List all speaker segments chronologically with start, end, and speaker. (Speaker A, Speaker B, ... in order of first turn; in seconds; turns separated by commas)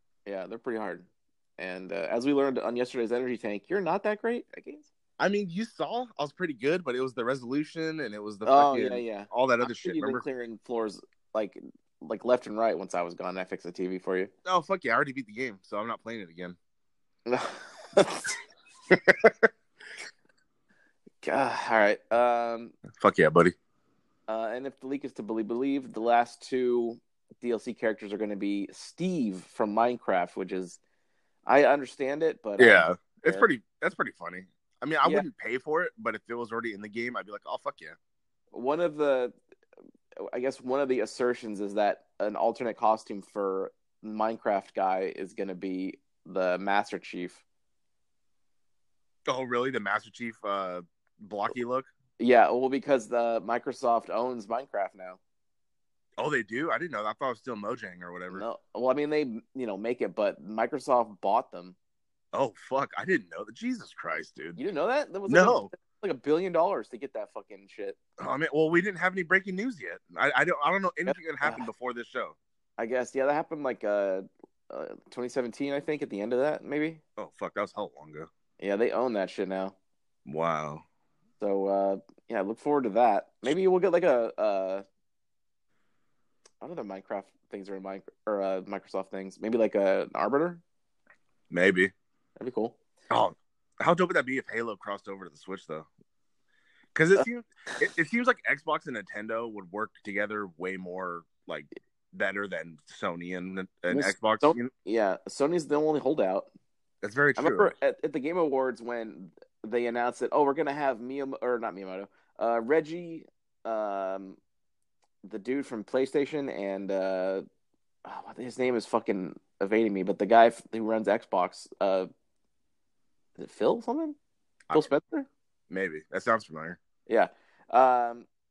Speaker A: 0.2-4.9, Speaker B: 5.2-10.2, Speaker A: 8.4-14.3, Speaker B: 14.4-16.6, Speaker A: 17.3-18.4, Speaker B: 18.9-19.4, Speaker A: 21.2-22.7, Speaker B: 23.0-23.5, Speaker A: 24.3-30.8, Speaker A: 31.5-33.5, Speaker B: 32.6-38.0, Speaker A: 35.0-35.3, Speaker A: 38.5-39.3, Speaker A: 40.2-47.4, Speaker B: 49.3-51.9, Speaker A: 52.2-55.2, Speaker B: 56.2-58.4, Speaker A: 58.3-61.8, Speaker B: 62.3-64.6, Speaker A: 64.6-68.0, Speaker B: 65.3-65.7, Speaker B: 68.2-72.3, Speaker A: 71.1-71.7, Speaker A: 72.8-77.0, Speaker B: 77.2-78.3, Speaker A: 78.6-79.7, Speaker B: 80.2-80.8, Speaker A: 81.4-84.8, Speaker A: 86.6-90.6, Speaker B: 91.5-91.9, Speaker A: 92.4-92.8, Speaker B: 93.1-95.9, Speaker B: 96.9-104.7, Speaker A: 103.9-106.5, Speaker B: 107.0-107.7, Speaker A: 107.4-114.4, Speaker A: 115.2-117.4, Speaker A: 118.0-122.1, Speaker A: 123.4-124.2, Speaker A: 124.7-125.3, Speaker B: 125.7-126.8, Speaker A: 127.1-128.3